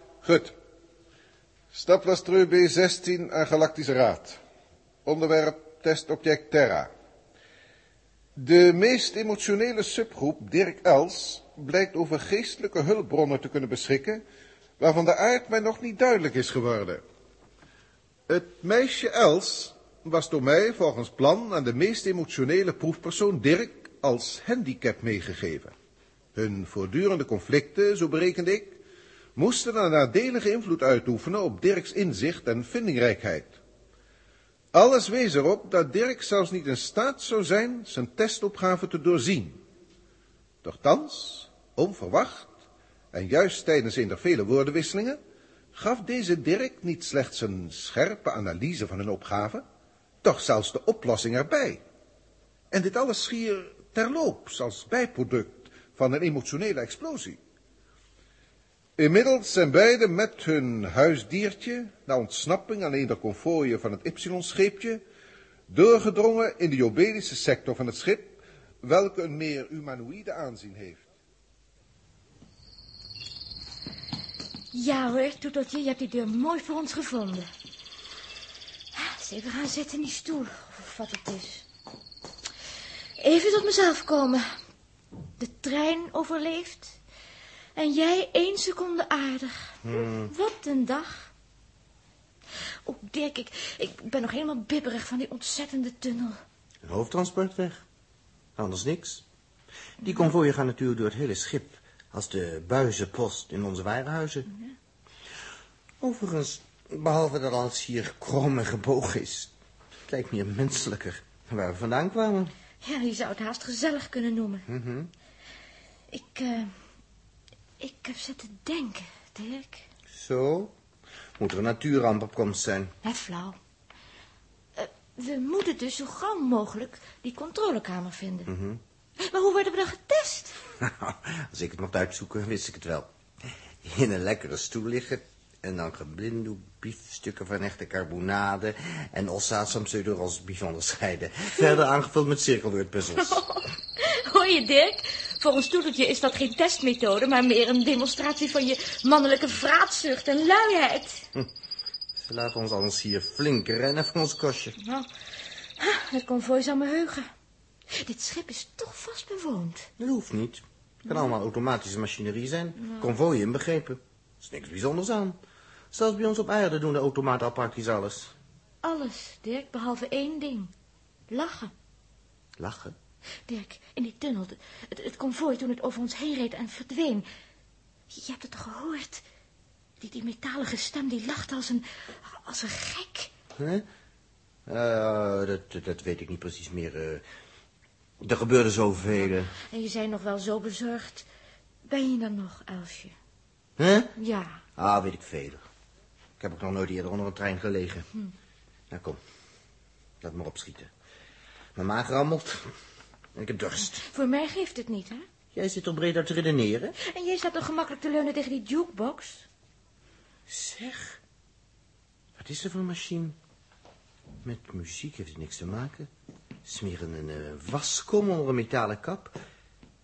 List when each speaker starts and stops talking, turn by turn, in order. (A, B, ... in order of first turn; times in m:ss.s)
0:00.2-0:00.6 A
0:01.7-0:04.4 A
0:05.0-0:06.9 A
0:08.4-0:14.2 A
0:14.8-0:17.0 A
0:18.3-0:25.7 A
0:26.4-0:28.8 A
0:29.4-0:33.6 A
0:34.7-0:39.6 A
0:40.6-0:42.6 A
0:43.1-0:45.2 A
0:45.7-0:49.6 A
0:50.2-0:51.8 A
0:52.7-0:57.4 A
0:59.0-1:05.0 A
1:05.7-1:11.0 A
1:14.7-1:17.5 B
1:19.0-1:21.7 B
1:23.2-1:24.4 B
1:25.4-1:27.0 B
1:27.8-1:31.3 B
1:29.8-1:30.3 C
1:32.9-1:36.4 B
1:36.8-1:37.8 C
1:38.6-1:39.2 C
1:40.0-1:44.5 C
1:46.0-1:49.5 C
1:50.1-1:52.5 C
1:52.8-1:54.6 B
1:54.7-1:55.1 C
1:56.1-1:56.7 B
1:57.8-1:59.8 B
2:00.1-2:00.7 C
2:01.4-2:02.9 C
2:03.0-2:03.6 B
2:04.8-2:08.5 B
2:08.5-2:08.8 C
2:09.2-2:10.6 B
2:10.8-2:13.1 C
2:13.8-2:23.4 C
2:23.2-2:31.3 B
2:32.2-2:34.8 C
2:34.8-2:35.1 B
2:35.8-2:37.3 B
2:37.9-2:39.9 B
2:40.0-2:45.4 C
2:42.8-2:43.1 B
2:45.9-2:48.3 C
2:48.8-2:50.7 B
2:51.3-2:51.7 B
2:52.6-2:53.0 C
2:53.5-2:57.3 B
2:58.1-2:59.2 B
3:00.0-3:03.3 B
3:03.6-3:03.9 C
3:04.7-3:07.2 C
3:08.2-3:09.5 C
3:09.6-3:11.3 B
3:11.9-3:13.2 B
3:13.8-3:14.1 C
3:14.2-3:14.6 B
3:14.8-3:15.6 C
3:16.4-3:18.1 C
3:18.9-3:19.2 C
3:20.2-3:20.9 C
3:21.8-3:22.7 C
3:23.4-3:24.0 C
3:24.0-3:25.2 B
3:25.5-3:27.0 C
3:27.0-3:29.5 B
3:30.5-3:31.2 C
3:32.4-3:33.4 C
3:34.4-3:36.1 C
3:36.6-3:39.3 C